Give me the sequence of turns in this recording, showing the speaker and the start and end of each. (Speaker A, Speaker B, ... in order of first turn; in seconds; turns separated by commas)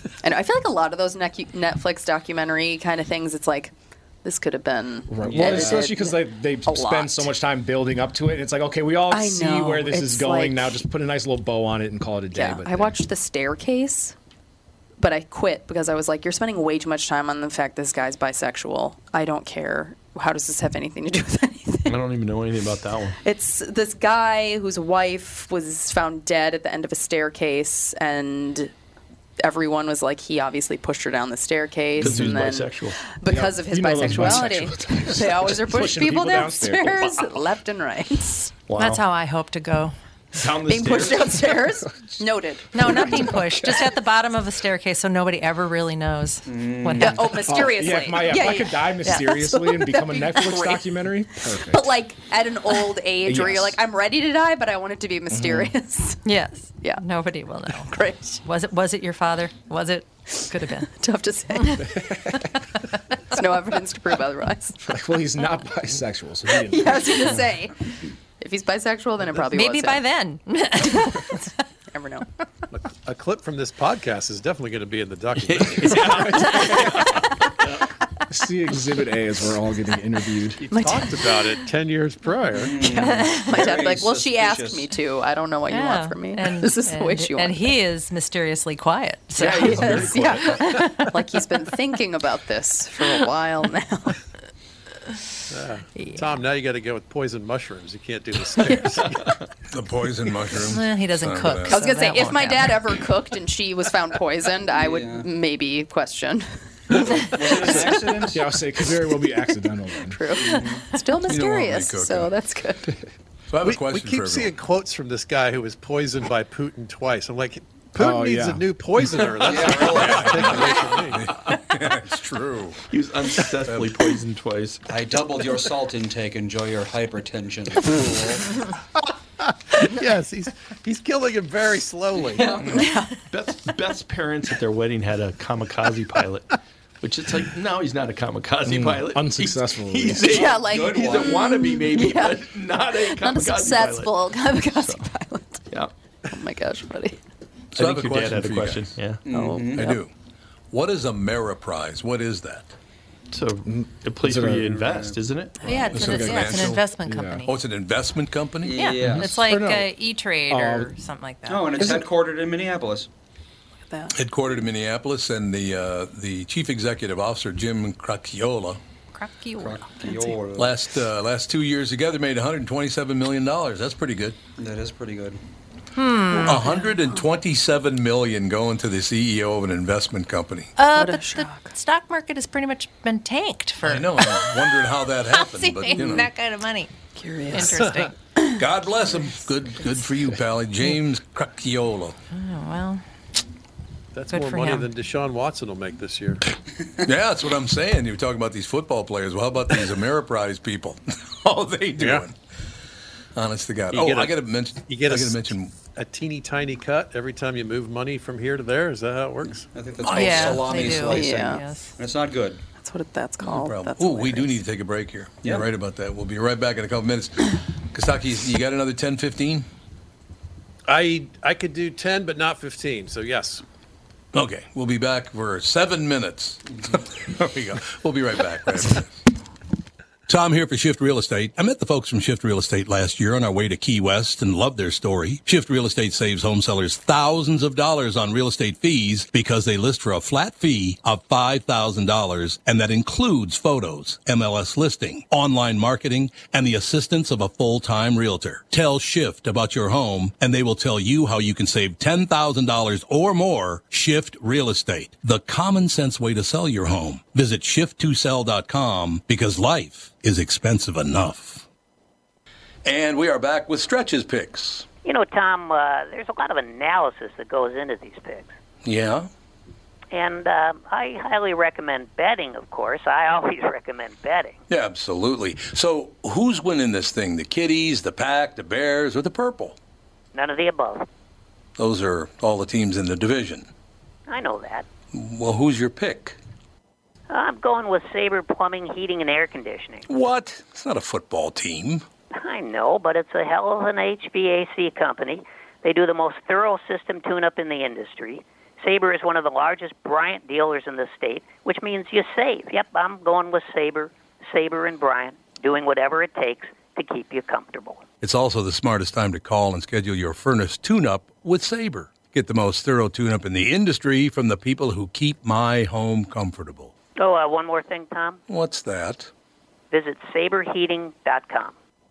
Speaker A: 0.2-7.3, Speaker B: 5.1-12.9, Speaker C: 5.2-5.9, Speaker A: 9.1-10.7, Speaker A: 12.3-14.2, Speaker A: 15.0-22.0, Speaker D: 21.9-23.2, Speaker A: 23.2-28.7, Speaker A: 29.4-38.5, Speaker D: 32.0-33.0, Speaker B: 32.0-32.4, Speaker B: 33.3-37.3, Speaker D: 34.0-34.4, Speaker D: 38.7-39.0, Speaker E: 38.8-40.0, Speaker D: 40.3-41.7, Speaker A: 40.6-43.3, Speaker E: 42.7-47.3, Speaker B: 42.8-43.9, Speaker C: 46.5-47.4, Speaker A: 47.0-56.2, Speaker B: 47.4-51.9, Speaker B: 53.3-53.7, Speaker B: 55.3-55.7, Speaker E: 56.2-60.9, Speaker A: 57.8-58.4, Speaker A: 60.3-62.5, Speaker B: 61.9-62.3, Speaker A: 63.3-64.8, Speaker B: 64.8-67.4, Speaker A: 66.5-70.0, Speaker E: 69.5-71.4, Speaker A: 70.9-72.3, Speaker F: 72.7-76.4, Speaker D: 75.5-77.8, Speaker B: 76.1-77.0, Speaker B: 78.3-80.6, Speaker F: 80.6-82.7, Speaker A: 80.7-81.6, Speaker C: 82.6-84.9, Speaker A: 82.8-87.8, Speaker E: 82.9-83.5, Speaker E: 85.7-90.0, Speaker A: 89.3-94.2, Speaker D: 89.4-90.6, Speaker E: 90.7-91.1, Speaker F: 95.5-99.3, Speaker E: 96.0-96.3, Speaker A: 98.6-99.0, Speaker G: 99.7-101.8, Speaker E: 100.7-102.8, Speaker A: 101.7-106.5, Speaker C: 104.7-105.3, Speaker A: 107.0-108.2, Speaker C: 107.1-108.4, Speaker B: 107.6-110.2, Speaker A: 110.0-113.0, Speaker C: 110.4-110.8, Speaker G: 111.2-112.3, Speaker G: 113.5-114.5, Speaker F: 113.6-121.3, Speaker B: 118.0-118.6, Speaker C: 119.4-120.8, Speaker G: 119.8-122.8, Speaker D: 122.9-124.8, Speaker C: 124.9-128.6, Speaker F: 129.4-132.6, Speaker D: 132.6-145.1, Speaker A: 132.6-133.2, Speaker B: 138.7-140.3, Speaker A: 140.3-145.6, Speaker C: 140.3-141.4, Speaker A: 146.3-147.2, Speaker G: 147.7-149.0, Speaker D: 147.8-149.2, Speaker C: 149.3-150.0, Speaker A: 149.3-149.7, Speaker G: 149.7-150.1, Speaker G: 150.7-152.7, Speaker D: 153.3-155.6, Speaker B: 153.7-154.9, Speaker C: 154.8-155.2, Speaker E: 155.6-157.5, Speaker B: 155.7-157.4, Speaker G: 155.9-156.8, Speaker G: 157.5-158.8, Speaker C: 158.6-159.4, Speaker E: 158.8-161.8, Speaker B: 159.0-159.9, Speaker B: 160.5-160.9, Speaker C: 161.5-163.1, Speaker B: 161.8-162.1, Speaker A: 163.9-164.1, Speaker G: 164.1-168.8, Speaker E: 169.1-170.3, Speaker C: 169.6-170.7, Speaker G: 170.6-174.4, Speaker C: 174.6-175.4, Speaker E: 175.9-176.8, Speaker A: 176.3-177.2, Speaker G: 176.4-180.7, Speaker E: 180.8-184.8, Speaker A: 180.9-181.7, Speaker G: 183.8-186.3, Speaker E: 185.3-186.9, Speaker A: 187.2-188.6, Speaker E: 187.5-188.1, Speaker F: 187.8-188.0, Speaker G: 188.6-192.2, Speaker E: 192.3-193.0, Speaker F: 194.1-196.4, Speaker E: 194.3-194.9, Speaker G: 197.0-202.4, Speaker F: 202.0-202.3, Speaker G: 203.3-205.7, Speaker F: 203.9-204.3, Speaker F: 204.9-209.7, Speaker C: 209.7-212.6, Speaker G: 210.0-211.0, Speaker E: 210.1-211.9, Speaker A: 210.9-211.6, Speaker A: 212.8-214.6, Speaker G: 213.4-219.7, Speaker F: 220.9-223.6, Speaker G: 224.3-229.2, Speaker G: 230.3-261.7, Speaker G: 262.9-264.9, Speaker H: 265.0-268.6, Speaker G: 268.9-269.3, Speaker H: 270.1-274.6, Speaker G: 274.7-279.8, Speaker H: 280.3-281.1, Speaker G: 281.8-283.7, Speaker H: 284.3-284.9, Speaker G: 285.1-286.4, Speaker H: 287.3-290.1, Speaker G: 290.1-292.1, Speaker H: 292.3-308.0, Speaker G: 308.2-316.9, Speaker H: 317.2-318.4, Speaker G: 318.5-319.3, Speaker H: 319.9-321.8